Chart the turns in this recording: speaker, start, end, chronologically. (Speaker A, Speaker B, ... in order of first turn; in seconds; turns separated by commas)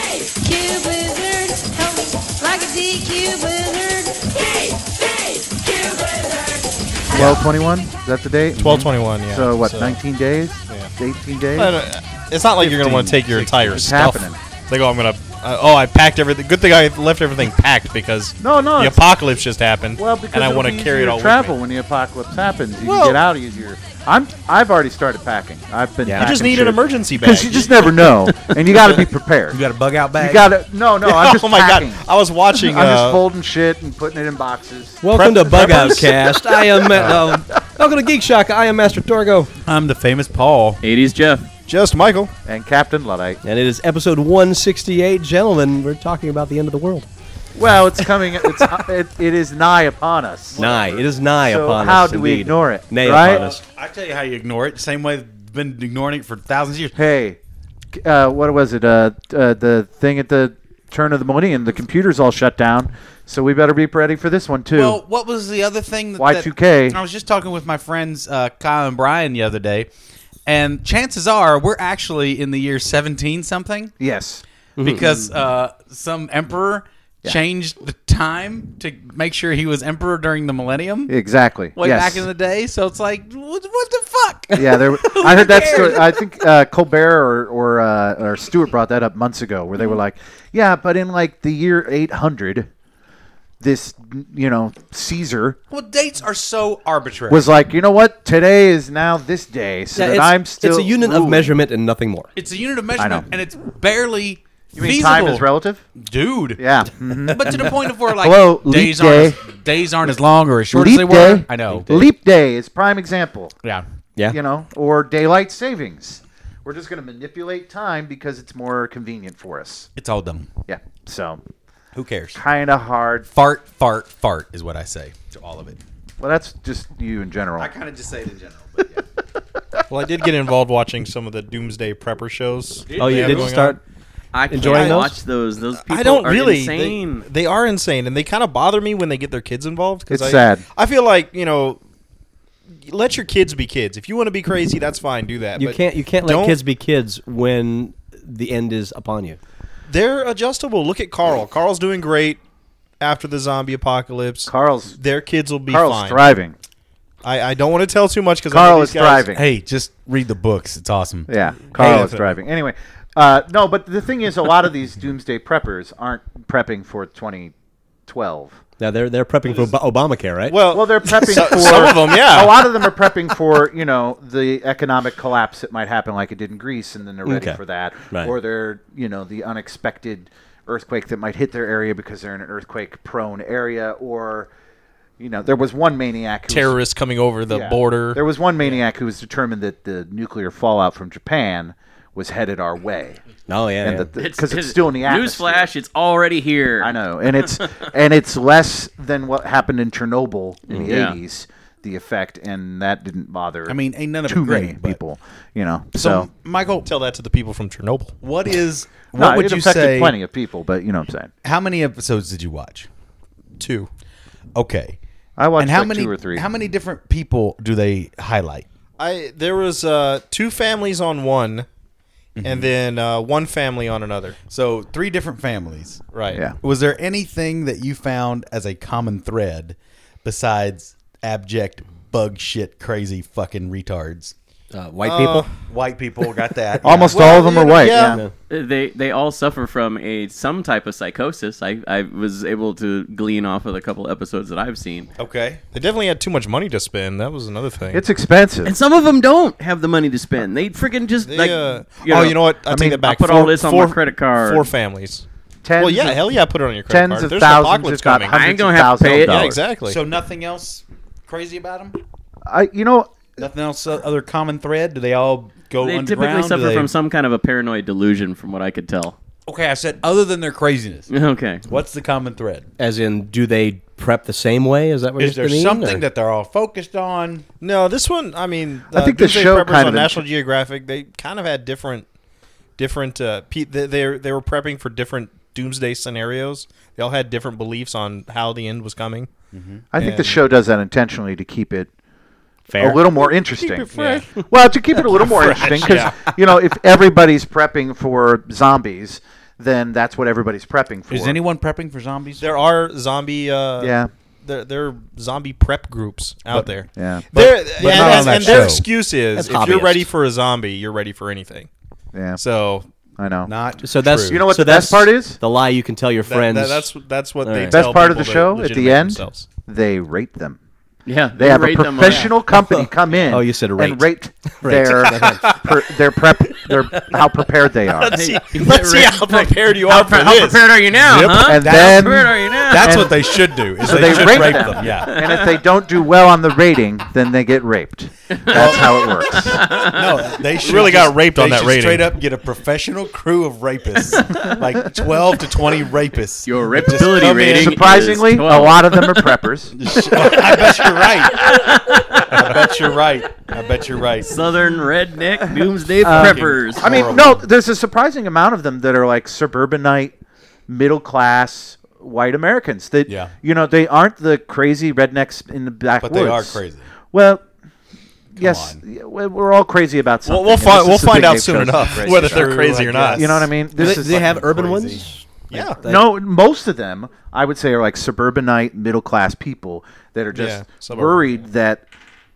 Speaker A: 0.4-4.7, Speaker A: 5.3-6.3, Speaker B: 7.1-11.8, Speaker C: 7.1-7.4, Speaker C: 8.6-10.0, Speaker D: 8.6-8.9, Speaker C: 10.7-10.9, Speaker C: 11.5-21.5, Speaker B: 12.6-14.4, Speaker B: 18.4-19.0, Speaker B: 19.9-29.6, Speaker C: 22.8-23.2, Speaker E: 26.0-26.4, Speaker C: 26.2-27.7, Speaker D: 29.5-30.5, Speaker B: 30.1-32.0, Speaker C: 31.0-33.2, Speaker B: 32.5-35.0, Speaker E: 35.0-39.5, Speaker C: 35.1-37.2, Speaker D: 39.6-40.8, Speaker F: 40.8-41.5, Speaker C: 41.7-42.3, Speaker B: 42.4-43.4, Speaker E: 43.4-47.1, Speaker B: 47.5-50.6, Speaker D: 50.5-51.0, Speaker E: 50.5-53.5, Speaker B: 51.4-53.6, Speaker D: 53.1-57.0, Speaker B: 57.0-57.4, Speaker B: 57.9-65.0, Speaker D: 64.7-69.9, Speaker B: 66.2-67.0, Speaker D: 70.5-73.9, Speaker B: 74.0-74.4, Speaker E: 74.8-75.1, Speaker D: 74.8-81.1, Speaker B: 81.1-82.2, Speaker D: 81.8-86.2, Speaker B: 84.5-92.7, Speaker B: 93.6-95.6, Speaker D: 95.7-97.5, Speaker B: 97.3-101.5, Speaker E: 99.9-102.3, Speaker D: 102.3-112.0, Speaker B: 103.0-103.2, Speaker B: 104.7-105.8, Speaker B: 106.6-109.4, Speaker B: 110.7-113.5, Speaker B: 114.3-119.9, Speaker D: 120.0-120.5, Speaker B: 120.7-121.4, Speaker D: 121.9-122.4, Speaker B: 122.3-123.3, Speaker D: 123.3-125.8, Speaker B: 126.2-127.7, Speaker D: 127.6-129.0, Speaker C: 129.9-133.8, Speaker D: 132.9-133.5, Speaker E: 133.0-133.8, Speaker F: 134.3-137.2, Speaker E: 134.5-135.2, Speaker C: 134.6-135.0, Speaker C: 135.8-141.8, Speaker B: 140.1-140.6, Speaker C: 142.8-146.6, Speaker E: 145.5-149.4, Speaker C: 149.9-152.4, Speaker C: 153.0-156.2, Speaker B: 154.5-155.0, Speaker B: 155.7-156.5, Speaker C: 157.2-159.3, Speaker B: 158.5-159.4, Speaker D: 159.3-161.3, Speaker B: 161.3-167.5, Speaker C: 161.7-162.3, Speaker B: 168.1-168.6, Speaker E: 168.8-171.5, Speaker C: 170.5-172.8, Speaker B: 170.7-184.5, Speaker E: 177.2-177.6, Speaker B: 185.2-186.8, Speaker C: 186.5-188.2, Speaker B: 187.5-193.2, Speaker E: 193.5-194.1, Speaker B: 193.8-195.7, Speaker F: 194.2-197.6, Speaker B: 196.8-206.3, Speaker F: 200.7-201.2, Speaker D: 203.7-205.0, Speaker D: 205.9-206.9, Speaker C: 206.8-208.1, Speaker D: 208.2-210.2, Speaker B: 209.1-211.3, Speaker D: 211.4-212.9, Speaker C: 213.6-213.9, Speaker D: 214.6-215.0, Speaker B: 215.4-216.4, Speaker D: 215.6-218.7, Speaker C: 219.0-221.7, Speaker D: 222.4-222.7, Speaker C: 222.4-224.4, Speaker D: 224.5-234.3, Speaker C: 226.1-226.4, Speaker B: 226.3-226.6, Speaker E: 234.7-235.5, Speaker C: 235.0-235.5, Speaker D: 235.7-237.3, Speaker B: 236.8-238.2, Speaker C: 237.0-238.2, Speaker F: 238.5-245.1, Speaker D: 245.2-245.6, Speaker C: 245.7-248.0, Speaker B: 247.9-248.7, Speaker F: 248.6-252.4, Speaker C: 251.2-255.2, Speaker B: 252.7-253.1, Speaker F: 253.0-254.7, Speaker B: 255.6-256.3, Speaker C: 255.8-258.4, Speaker B: 256.9-259.6, Speaker F: 258.3-259.5, Speaker C: 259.1-260.0, Speaker D: 259.8-262.0, Speaker B: 262.5-263.3, Speaker D: 263.4-266.9, Speaker F: 265.8-269.1, Speaker D: 269.4-271.1, Speaker F: 271.1-271.6, Speaker D: 271.7-272.7, Speaker E: 272.8-276.0, Speaker D: 275.2-277.4, Speaker C: 277.6-282.1, Speaker B: 278.9-280.2, Speaker C: 282.8-289.3, Speaker D: 289.5-289.8, Speaker B: 289.9-291.9, Speaker C: 290.0-290.4, Speaker E: 292.7-293.0, Speaker B: 292.8-301.4, Speaker C: 293.6-294.3, Speaker C: 295.1-296.3, Speaker D: 301.1-302.4, Speaker C: 302.4-311.7, Speaker B: 303.8-304.1, Speaker B: 306.9-307.5, Speaker E: 307.8-308.8, Speaker D: 307.8-308.8, Speaker E: 309.3-310.0, Speaker B: 312.1-312.4, Speaker C: 312.4-312.9, Speaker B: 313.2-313.5, Speaker D: 313.4-314.4, Speaker E: 313.8-316.9, Speaker B: 314.2-315.4, Speaker C: 316.2-319.5, Speaker E: 317.4-317.9, Speaker B: 317.7-320.6, Speaker F: 321.1-322.3, Speaker B: 321.4-328.3, Speaker E: 322.7-325.6, Speaker C: 325.3-325.6, Speaker C: 327.9-330.7, Speaker F: 328.0-333.1, Speaker D: 330.9-335.4, Speaker B: 331.3-339.7, Speaker F: 334.0-335.6, Speaker F: 338.4-340.2, Speaker D: 338.5-347.8, Speaker C: 340.6-342.1, Speaker F: 346.4-349.4, Speaker B: 347.4-350.4, Speaker D: 349.8-354.4, Speaker F: 350.1-352.4, Speaker F: 354.2-356.9, Speaker B: 356.0-360.1, Speaker D: 356.0-357.4, Speaker B: 360.7-366.6, Speaker D: 363.1-363.3, Speaker D: 366.0-366.8, Speaker B: 367.1-367.4, Speaker D: 368.4-368.8, Speaker B: 368.4-374.3, Speaker C: 370.2-373.5, Speaker D: 371.7-375.1, Speaker E: 373.0-376.1, Speaker C: 375.5-375.8, Speaker B: 375.8-381.9, Speaker C: 380.3-381.2